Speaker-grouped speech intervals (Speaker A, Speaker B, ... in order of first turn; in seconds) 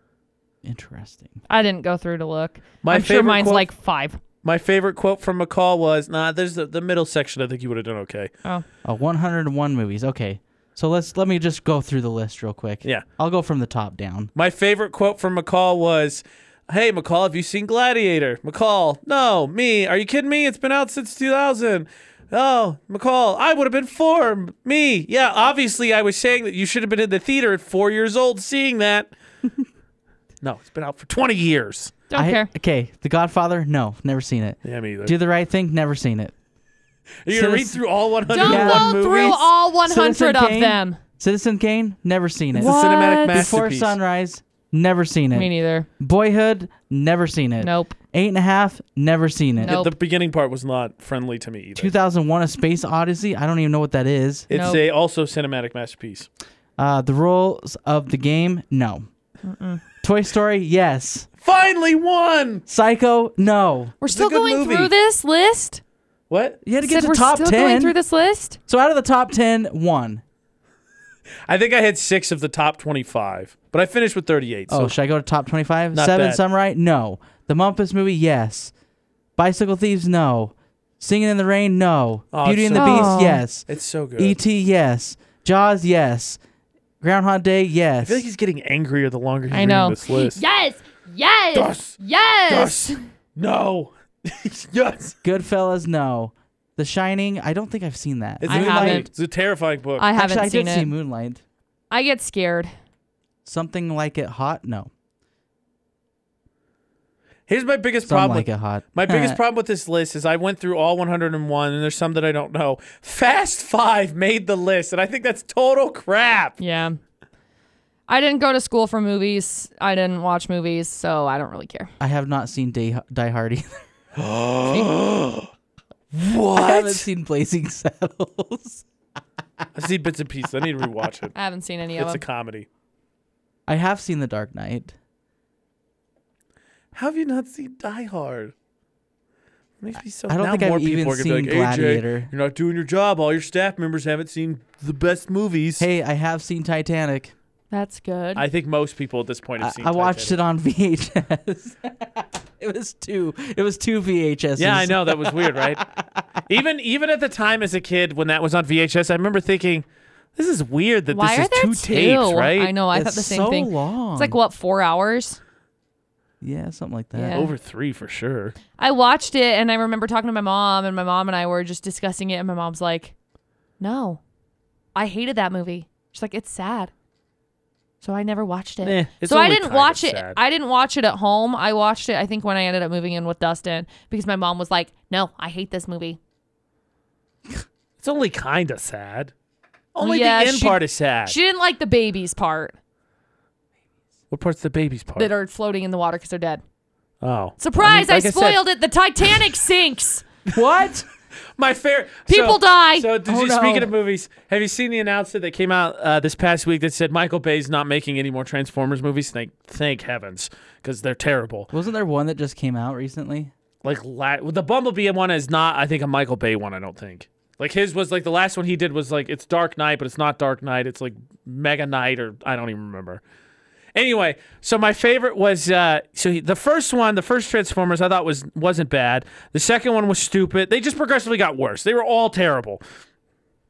Speaker A: 0.6-1.4, 8.8-14.3, 32.1-36.3, 37.3-37.8, 38.4-39.2, 39.8-49.8, 51.8-54.5, 56.8-59.1, 60.0-61.3, 62.7-64.0, 66.6-67.9, 68.7-70.2, 74.7-78.7, 79.3-83.7, 84.2-86.4, 87.0-88.2, 95.2-99.1, 100.1-101.4, 103.4-104.9, 108.0-109.4, 122.0-123.8, 126.2-128.8, 133.7-134.9, 140.3-142.3, 145.8-147.3, 149.6-156.4, 162.9-164.4, 166.4-167.4, 200.5-201.1, 203.2-203.9, 211.7-213.5
Speaker B: 1.5-4.2, 32.1-32.5, 38.3-41.0, 42.5-43.5, 45.3-45.9, 47.6-48.0, 49.6-49.9, 54.5-54.8, 59.4-59.8, 64.0-65.8, 66.8-68.6, 82.7-83.4, 89.5-93.0, 98.5-99.1, 100.0-100.9, 101.9-102.7, 116.6-117.0, 118.1-121.9, 124.7-124.9, 131.3-132.2, 147.7-148.4, 161.1-165.4, 167.1-167.5, 168.8-173.1, 173.8-174.2, 174.9-176.9, 178.0-186.2, 190.0-192.7, 195.2-196.6, 197.6-200.2, 202.3-203.1
Speaker C: 2.8-3.7, 4.4-8.3, 14.3-29.1, 30.4-31.9, 34.6-35.1, 37.2-39.5, 42.5-44.0, 49.6-51.9, 54.5-56.3, 61.4-62.6, 64.1-64.9, 66.3-66.6, 71.5-74.9, 75.9-76.4, 82.3-84.4, 88.0-90.4, 91.5-92.0, 92.5-95.2, 98.4-100.1, 107.5-116.6, 124.2-125.5, 126.1-127.1, 129.7-131.3, 132.0-132.7, 136.9-138.5, 139.8-145.8, 148.3-150.4, 154.6-155.8, 156.5-159.8, 160.3-162.7, 167.3-168.5, 178.8-180.4, 188.0-189.3, 189.9-191.3, 194.3-195.3, 197.2-198.6, 201.6-211.7, 213.8-223.2, 223.9-232.8